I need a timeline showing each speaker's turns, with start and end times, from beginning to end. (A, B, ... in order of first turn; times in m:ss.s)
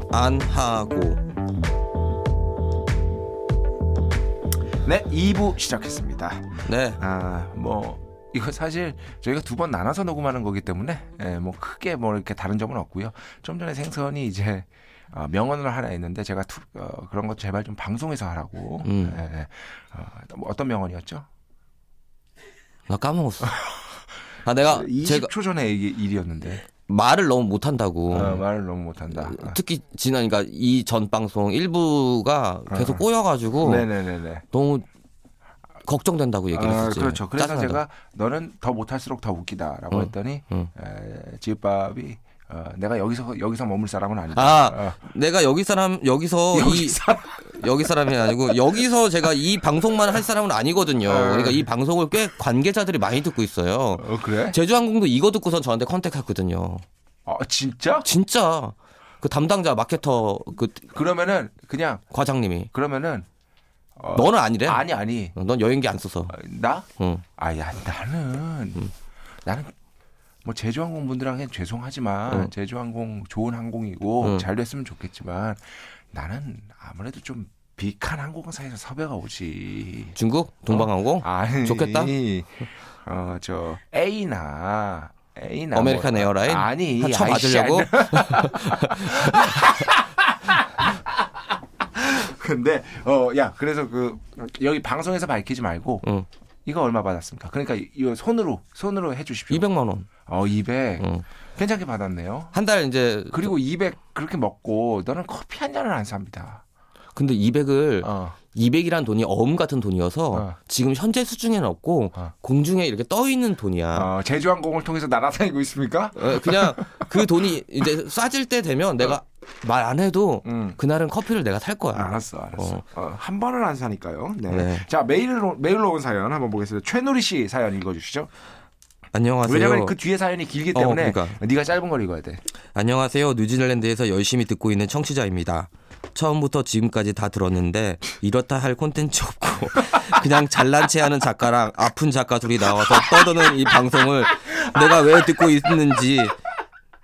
0:00.1-0:01.2 A
0:04.8-0:21.3 B
0:06.6-0:07.0 A
0:18.8-0:19.2 A
0:22.9-0:23.6 A
0:24.4-0:25.3 A
0:24.7-0:26.6 B
0:26.9-0:28.4 A
0:28.1-0:29.6 B
0:29.2-0:33.9 A
0:32.7-0:33.0 B
0:33.6-0:34.4 B
0:34.5-0:34.9 A
0:35.9-0:37.8 A
0:36.5-0:45.0 B
0:39.9-0:40.7 A
0:44.4-0:56.8 A
0:46.5-0:47.6 B
0:51.1-0:51.7 B
0:54.0-0:54.6 B
0:57.3-0:58.1 B
0:58.0-1:00.9 A
1:00.9-1:02.0 B
1:02.1-1:02.7 A
1:02.7-1:03.3 B
1:04.0-1:05.4 B
1:04.2-1:04.8 A
1:05.4-1:06.4 A
1:06.3-1:08.9 B
1:07.0-1:07.2 A
1:09.4-1:09.7 B
1:10.4-1:20.2 B
1:20.2-1:22.1 A
1:20.7-1:31.3 B
1:25.7-1:29.8 A
1:31.8-1:36.1 B
1:36.6-1:39.7 B
1:39.5-1:40.1 A
1:40.3-1:42.5 B
1:41.0-1:41.2 A
1:42.5-1:43.5 A
1:43.3-1:46.6 B
1:47.2-1:54.1 A
1:48.0-1:48.4 B
1:54.0-1:57.3 B
1:56.2-2:02.8 A
2:00.4-2:00.8 B
2:01.9-2:08.3 B
2:04.5-2:04.9 A
2:09.1-2:10.0 A
2:09.4-2:12.4 B
2:10.7-2:11.4 A
2:12.8-2:26.4 A
2:22.8-2:23.5 B
2:24.8-2:25.5 B